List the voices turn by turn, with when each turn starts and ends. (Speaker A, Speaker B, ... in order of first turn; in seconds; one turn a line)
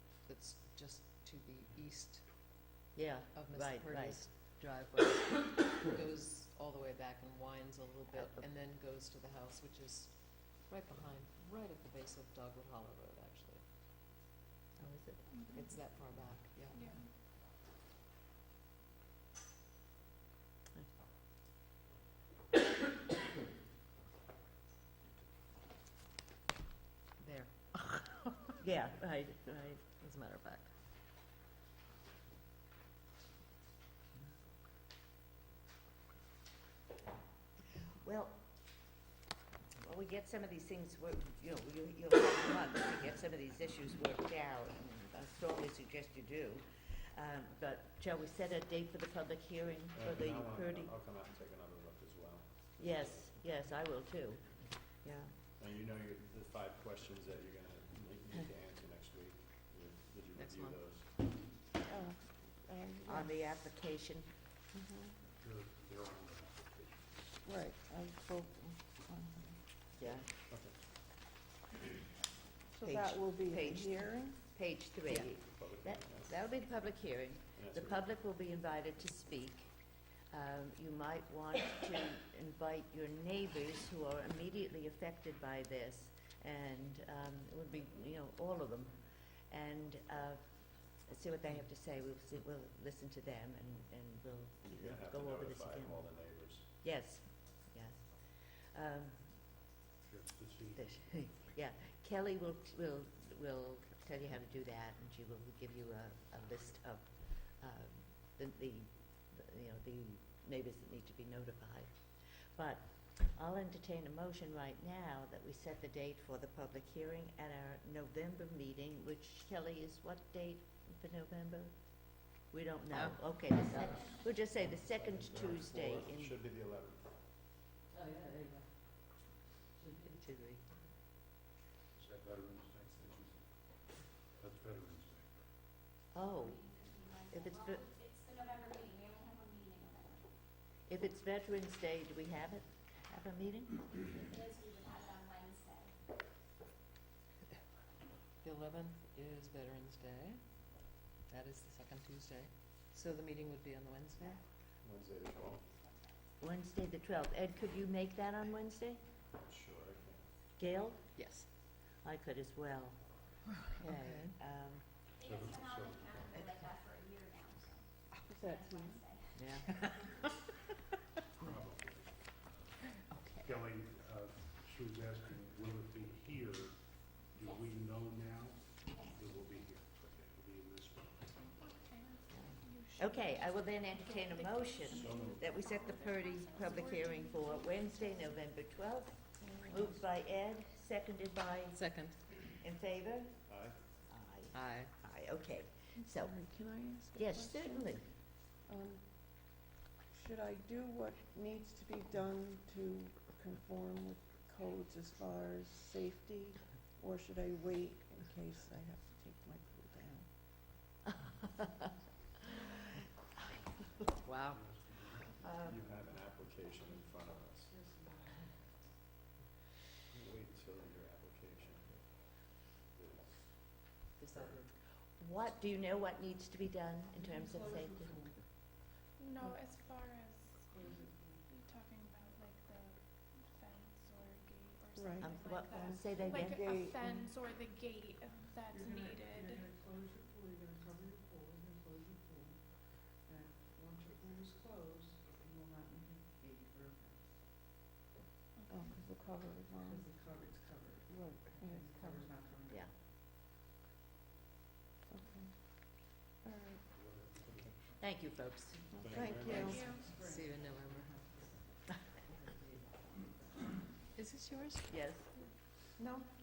Speaker A: 0.2-2.3
Speaker B: 3.0-4.2
Speaker A: 3.3-13.6
Speaker B: 8.1-8.4
Speaker B: 14.8-15.7
Speaker C: 15.3-15.7
Speaker A: 15.5-17.1
Speaker C: 16.7-17.1
Speaker A: 27.2-28.5
Speaker B: 28.6-29.8
Speaker A: 30.0-30.7
Speaker B: 38.0-38.5
Speaker B: 39.8-50.9
Speaker D: 50.0-53.3
Speaker B: 52.8-55.3
Speaker D: 55.6-61.1
Speaker A: 60.4-60.8
Speaker E: 61.9-63.3
Speaker B: 63.1-64.3
Speaker E: 64.7-65.1
Speaker F: 65.4-67.3
Speaker E: 67.5-69.6
Speaker B: 70.0-70.3
Speaker D: 70.4-70.8
Speaker E: 72.7-74.4
Speaker B: 72.8-79.7
Speaker D: 75.5-76.3
Speaker D: 77.6-78.0
Speaker B: 80.3-96.1
Speaker D: 94.6-96.7
Speaker B: 96.8-98.0
Speaker B: 98.7-99.4
Speaker F: 100.0-100.8
Speaker B: 100.7-112.0
Speaker B: 112.5-126.3
Speaker A: 122.9-124.0
Speaker D: 124.9-127.2
Speaker A: 127.9-128.7
Speaker A: 129.8-130.1
Speaker B: 130.0-130.6
Speaker F: 132.0-133.4
Speaker F: 134.4-135.3
Speaker B: 136.1-137.9
Speaker G: 136.6-140.2
Speaker B: 140.9-144.1
Speaker G: 144.1-145.9
Speaker A: 148.4-150.4
Speaker A: 151.3-154.4
Speaker D: 154.8-155.7
Speaker B: 156.4-159.0
Speaker D: 159.3-160.3
Speaker B: 160.6-161.2
Speaker A: 161.2-161.5
Speaker B: 162.0-163.0
Speaker A: 163.6-164.3
Speaker B: 163.8-164.8
Speaker F: 165.2-166.7
Speaker G: 165.2-167.8
Speaker E: 168.3-169.0
Speaker G: 168.4-169.7
Speaker B: 169.4-169.8
Speaker F: 171.4-181.6
Speaker A: 173.1-173.5
Speaker C: 181.4-188.5
Speaker B: 182.3-191.9
Speaker F: 185.0-185.4
Speaker E: 189.4-190.0
Speaker A: 191.7-192.2
Speaker B: 192.6-193.3
Speaker D: 193.5-193.8
Speaker B: 194.0-196.4
Speaker A: 194.5-194.9
Speaker E: 196.0-198.0
Speaker B: 197.2-198.1
Speaker E: 198.7-199.1
Speaker E: 200.1-210.3
Speaker B: 211.6-211.9
Speaker A: 214.2-214.6
Speaker F: 214.5-215.8
Speaker B: 215.4-215.8
Speaker D: 215.7-217.8
Speaker D: 220.1-222.0
Speaker D: 222.9-223.4
Speaker A: 224.2-224.7
Speaker D: 224.3-224.6
Speaker B: 225.2-228.3
Speaker C: 229.2-239.7
Speaker E: 235.0-237.2
Speaker B: 235.2-236.8
Speaker C: 248.6-249.0
Speaker E: 248.7-250.1
Speaker E: 251.1-252.3
Speaker B: 252.7-252.9
Speaker E: 255.1-255.5
Speaker E: 256.4-256.8
Speaker F: 257.0-257.8
Speaker B: 257.5-259.0
Speaker E: 258.9-259.9
Speaker D: 258.9-260.0
Speaker C: 259.6-260.1
Speaker A: 260.2-261.3
Speaker A: 264.1-264.9
Speaker B: 264.9-265.3